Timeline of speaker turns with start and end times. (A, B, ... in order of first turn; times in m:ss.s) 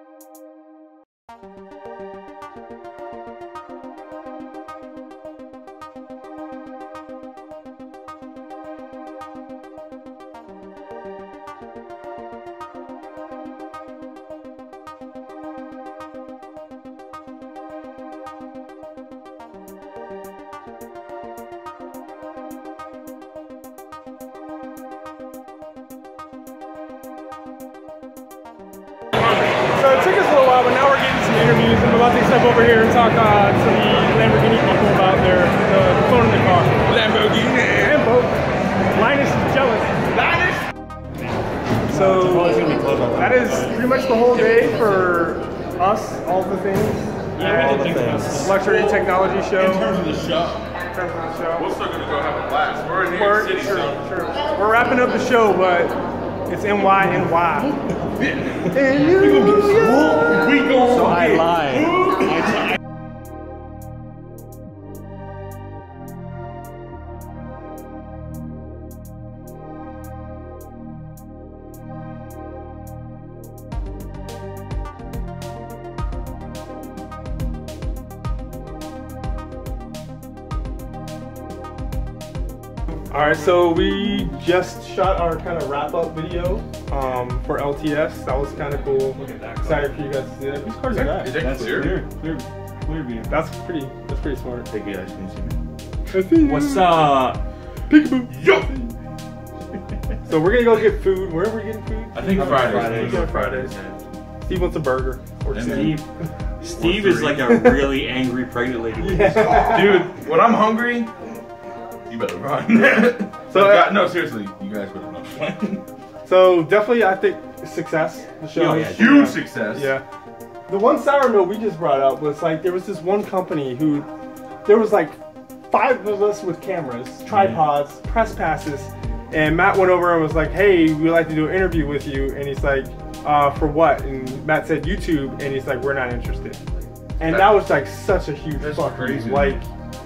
0:29.7-0:37.0 A
0:36.9-0:38.0 B
0:37.8-0:38.4 A
0:38.9-0:40.0 A
0:40.1-0:40.6 B
0:41.9-0:43.8 C
0:41.9-0:47.8 A
0:47.4-0:50.7 B
0:47.4-0:48.4 C
0:48.4-0:49.9 A
0:50.9-0:51.7 A
0:51.6-0:54.0 B
0:53.1-0:56.0 A
0:56.5-0:57.8 A
0:58.2-1:02.4 B
0:58.7-1:00.1 A
1:00.8-1:02.4 C
1:23.1-1:31.3 A
1:29.1-1:29.9 C
1:30.8-1:32.0 B
1:31.3-1:33.4 C
1:33.3-1:34.7 A
1:34.7-1:35.6 B
1:36.1-1:37.1 A
1:36.4-1:37.4 C
1:37.9-1:38.3 A
1:38.3-1:38.9 B
1:40.2-1:43.8 A
1:42.1-1:44.0 B
1:42.3-1:43.9 C
1:44.4-1:46.0 A
1:45.5-1:46.0 B
1:45.6-1:46.1 C
1:46.6-1:50.0 C
1:46.8-1:47.5 B
1:47.5-1:47.9 A
1:49.0-1:50.1 A
1:49.2-1:51.1 B
1:52.1-1:55.8 B
1:53.5-1:53.9 A
1:56.2-2:00.0 A
1:58.5-1:59.1 C
1:58.9-1:59.9 B
2:00.7-2:04.1 A
2:04.6-2:05.2 A
2:05.7-2:16.6 A
2:07.3-2:07.7 C
2:17.2-2:19.7 A
2:17.3-2:17.7 B
2:18.6-2:19.6 B